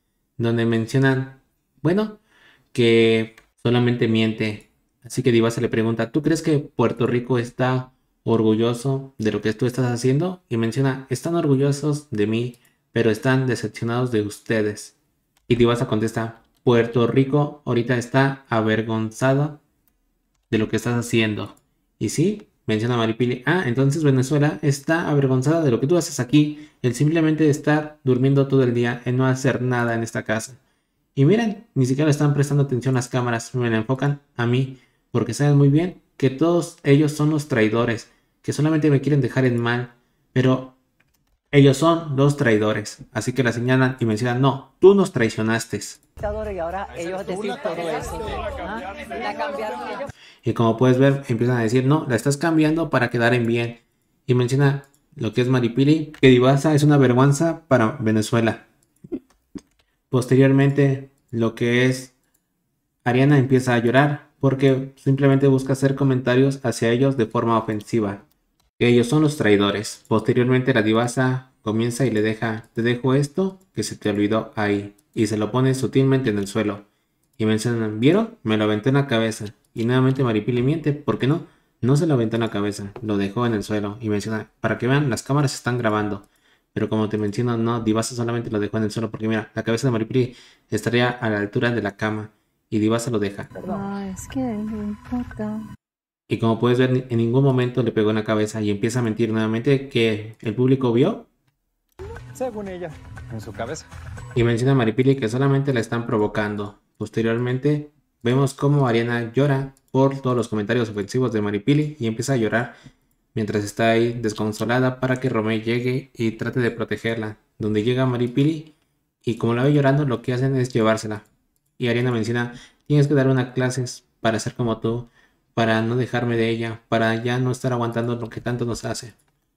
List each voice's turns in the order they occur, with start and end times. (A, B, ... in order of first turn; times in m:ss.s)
0:00.4-0:02.2 A
0:02.7-0:15.0 A
0:15.5-0:19.6 A
0:20.5-0:30.6 A
0:31.2-0:40.8 A
0:41.5-0:46.0 A
0:46.2-0:50.0 B
0:47.3-0:48.5 C
0:50.4-0:58.7 A
1:00.1-1:02.1 A
1:03.0-1:08.2 A
1:08.8-1:16.9 A
1:17.4-1:33.5 A
1:33.6-1:33.9 C
1:33.6-1:35.6 D
1:36.3-1:41.3 A
1:42.3-1:43.9 C
1:44.3-1:52.7 A
1:53.3-2:01.2 A
2:01.8-2:09.2 A